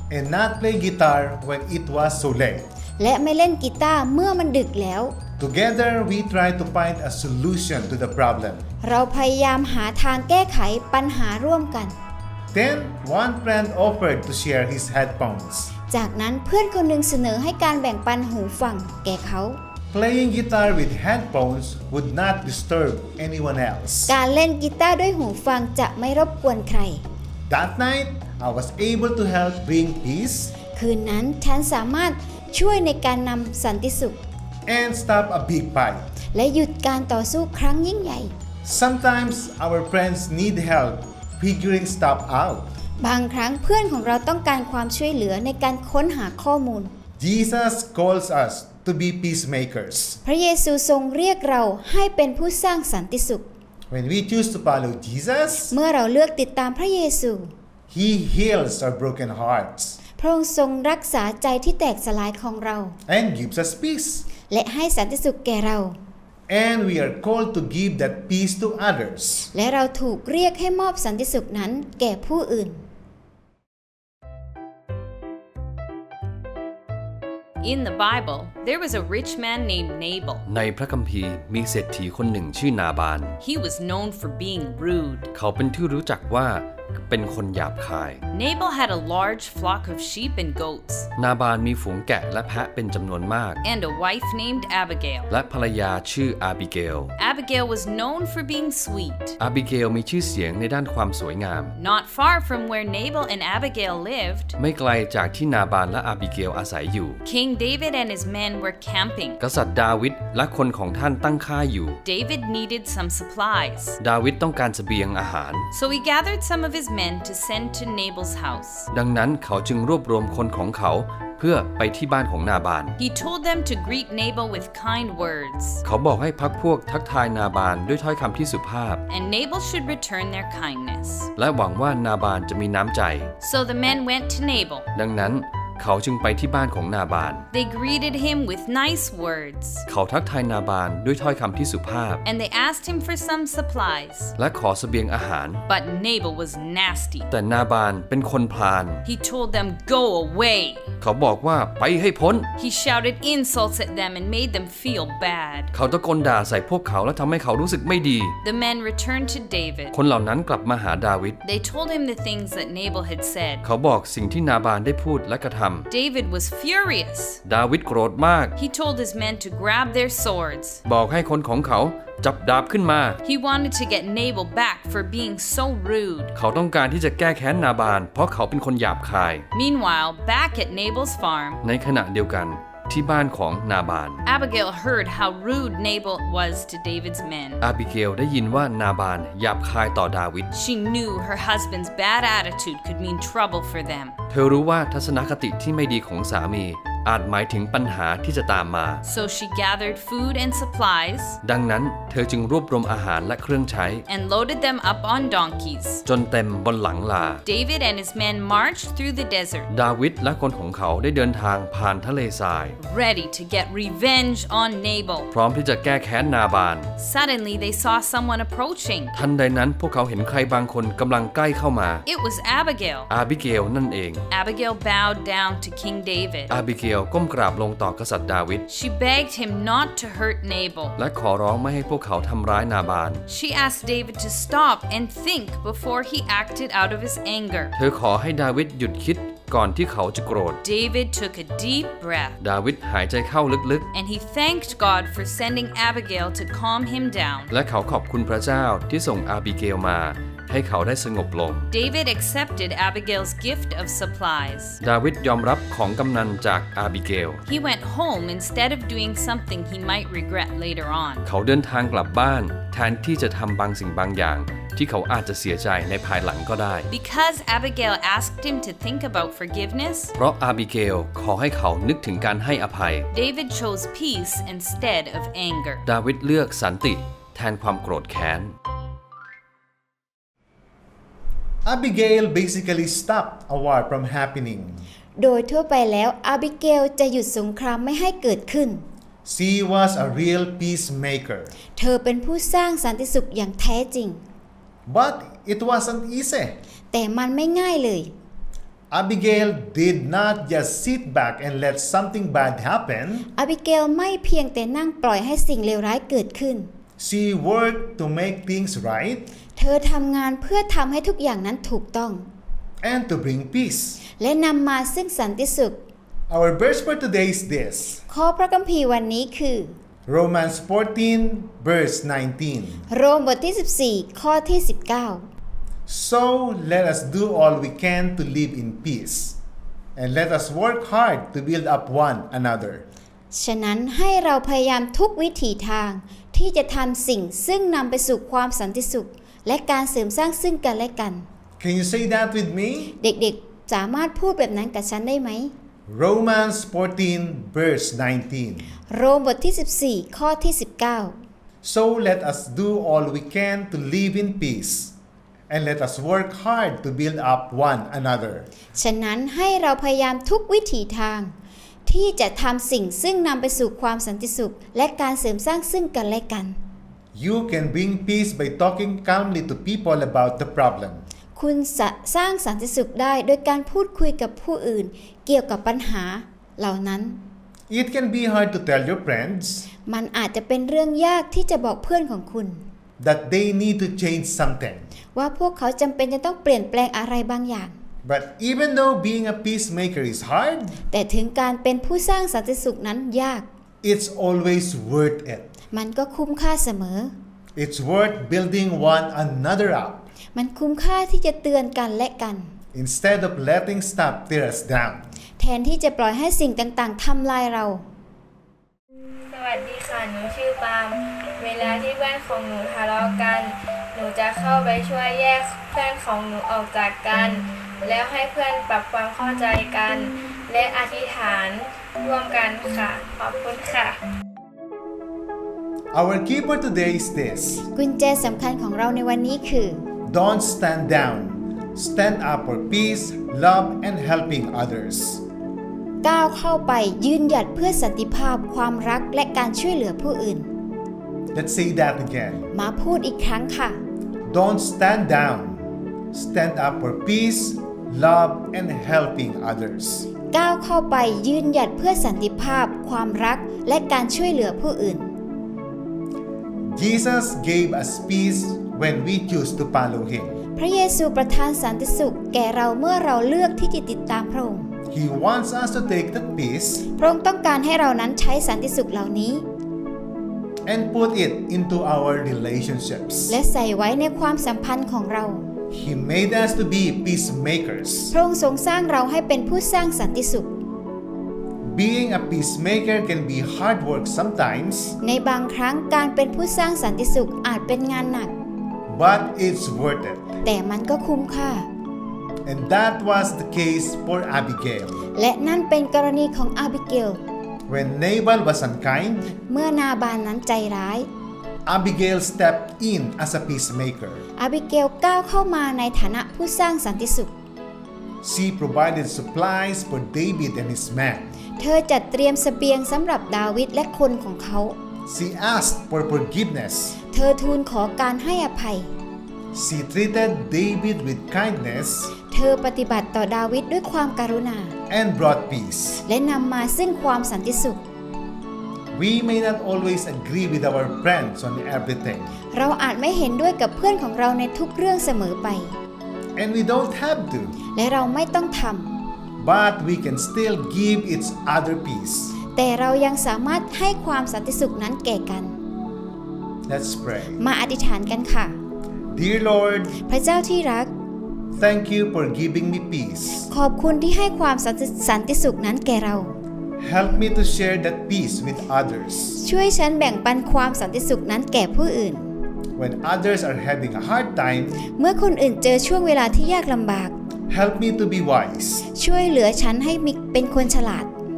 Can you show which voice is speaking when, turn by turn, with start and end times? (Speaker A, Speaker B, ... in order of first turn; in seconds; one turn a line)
Speaker A: 0.1-2.6
Speaker B: 3.0-5.2
Speaker A: 5.4-8.6
Speaker B: 8.8-11.9
Speaker A: 12.5-15.7
Speaker B: 15.9-19.6
Speaker A: 19.9-24.1
Speaker B: 24.1-27.0
Speaker A: 27.5-30.5
Speaker B: 30.7-34.2
Speaker A: 34.7-36.0
Speaker B: 36.3-38.3
Speaker A: 38.6-42.7
Speaker B: 43.0-46.9
Speaker A: 47.2-50.2
Speaker B: 50.2-53.5
Speaker A: 53.9-55.7
Speaker B: 55.7-57.5
Speaker A: 57.9-60.0
Speaker B: 60.2-63.0
Speaker A: 63.1-64.2
Speaker B: 64.5-66.0
Speaker A: 66.5-69.5
Speaker B: 69.5-72.8
Speaker C: 77.6-80.4
Speaker D: 80.5-83.4
Speaker C: 83.4-85.3
Speaker D: 85.3-88.2
Speaker C: 88.3-91.1
Speaker D: 91.2-93.6
Speaker C: 93.6-95.3
Speaker D: 95.3-97.1
Speaker C: 97.2-99.4
Speaker D: 99.4-101.7
Speaker C: 101.7-104.6
Speaker D: 104.6-107.2
Speaker C: 107.2-109.4
Speaker D: 109.4-112.0
Speaker C: 112.0-114.0
Speaker D: 114.0-115.7
Speaker C: 115.7-118.9
Speaker D: 118.9-123.0
Speaker C: 123.0-125.8
Speaker D: 125.8-129.0
Speaker C: 129.1-131.3
Speaker D: 131.3-133.3
Speaker C: 133.4-134.9
Speaker D: 134.9-137.4
Speaker C: 137.5-139.8
Speaker D: 139.9-142.2
Speaker C: 142.2-144.3
Speaker D: 144.4-145.6
Speaker C: 145.7-147.3
Speaker D: 147.3-149.0
Speaker C: 149.0-150.9
Speaker D: 151.0-152.5
Speaker C: 152.6-155.7
Speaker D: 155.7-158.3
Speaker C: 158.4-159.9
Speaker D: 159.9-161.4
Speaker C: 161.4-163.6
Speaker D: 163.6-165.9
Speaker C: 165.9-167.4
Speaker D: 167.4-168.6
Speaker C: 168.6-170.8
Speaker D: 170.8-173.2
Speaker C: 173.2-176.3
Speaker D: 176.3-179.4
Speaker C: 179.5-181.6
Speaker D: 181.6-184.2
Speaker C: 184.2-187.6
Speaker D: 187.6-190.5
Speaker C: 190.5-194.1
Speaker D: 194.3-199.0
Speaker C: 199.0-201.4
Speaker D: 201.4-204.0
Speaker C: 204.1-206.0
Speaker D: 206.1-207.4
Speaker C: 207.4-209.7
Speaker D: 209.7-212.8
Speaker C: 212.8-215.3
Speaker D: 215.3-216.9
Speaker C: 217.0-219.2
Speaker D: 219.1-222.0
Speaker C: 222.0-223.1
Speaker D: 223.1-224.2
Speaker C: 224.3-226.5
Speaker D: 226.5-228.6
Speaker C: 228.7-231.0
Speaker D: 230.9-233.2
Speaker C: 233.3-237.7
Speaker D: 237.8-240.6
Speaker C: 240.6-242.4
Speaker D: 242.4-243.9
Speaker C: 243.9-247.5
Speaker D: 247.5-251.7
Speaker C: 251.7-254.8
Speaker D: 254.8-257.4
Speaker C: 257.4-261.2
Speaker D: 261.2-266.9
Speaker C: 266.9-270.1
Speaker D: 270.1-273.1
Speaker C: 273.1-275.9
Speaker D: 275.9-278.5
Speaker A: 281.6-284.8
Speaker B: 285.2-288.8
Speaker A: 289.2-291.5
Speaker B: 291.8-294.2
Speaker A: 294.9-296.6
Speaker B: 296.9-298.1
Speaker A: 298.9-303.3
Speaker B: 303.3-306.7
Speaker A: 307.0-309.2
Speaker B: 309.6-312.3
Speaker A: 312.8-314.0
Speaker B: 314.2-315.8
Speaker A: 316.3-318.0
Speaker B: 318.1-319.8
Speaker A: 320.1-322.8
Speaker B: 322.9-325.2
Speaker A: 325.9-329.4
Speaker A: 329.9-332.9
Speaker B: 333.3-341.2
Speaker A: 341.6-342.9
Speaker B: 343.0-345.5
Speaker A: 345.9-348.7
Speaker B: 348.9-351.1
Speaker A: 351.6-354.9
Speaker A: 355.5-358.5
Speaker B: 358.8-361.3
Speaker B: 361.9-366.6
Speaker A: 367.1-371.0
Speaker B: 371.3-377.2
Speaker A: 377.7-379.7
Speaker B: 379.9-382.6
Speaker A: 383.0-384.9
Speaker B: 385.1-387.8
Speaker A: 388.0-390.8
Speaker B: 390.9-393.4
Speaker A: 393.8-395.5
Speaker B: 395.7-397.1
Speaker A: 397.6-400.1
Speaker B: 400.3-402.5
Speaker A: 402.7-405.1
Speaker B: 405.4-407.8
Speaker E: 409.3-424.0
Speaker A: 425.9-427.6
Speaker B: 427.7-429.8
Speaker A: 430.1-435.2
Speaker B: 436.0-440.5
Speaker A: 441.3-442.5
Speaker B: 442.5-443.8
Speaker A: 444.3-450.1
Speaker B: 450.3-455.1
Speaker A: 456.7-460.3
Speaker B: 460.6-464.7
Speaker A: 464.9-466.8
Speaker B: 466.9-469.4
Speaker A: 470.6-473.4
Speaker B: 473.3-475.5
Speaker A: 475.7-478.1
Speaker B: 478.1-480.5
Speaker A: 481.6-484.9
Speaker B: 485.0-488.3
Speaker A: 488.9-490.3
Speaker B: 490.4-491.7
Speaker A: 492.4-495.0
Speaker B: 495.1-497.2
Speaker A: 497.7-499.3
Speaker B: 499.5-501.1
Speaker A: 501.6-504.2
Speaker B: 504.4-507.3
Speaker A: 508.2-511.3
Speaker B: 511.6-514.8
Speaker A: 515.1-517.0
Speaker B: 517.1-518.9
Speaker A: 519.5-522.1
Speaker B: 522.3-524.7
Speaker A: 524.9-526.0
Speaker B: 526.0-527.8
Speaker A: 528.9-532.3
Speaker B: 532.5-535.8
Speaker A: 536.4-537.5
Speaker B: 537.7-539.0
Speaker A: 539.4-542.3
Speaker B: 542.5-545.6
Speaker A: 546.7-547.4
Speaker B: 547.4-548.6
Speaker A: 549.1-550.0
Speaker B: 550.0-550.9
Speaker A: 551.5-553.5
Speaker B: 553.5-556.4
Speaker A: 556.8-559.4
Speaker B: 559.4-562.3
Speaker A: 562.8-564.8
Speaker B: 565.0-567.1
Speaker A: 567.5-568.9
Speaker B: 568.9-571.1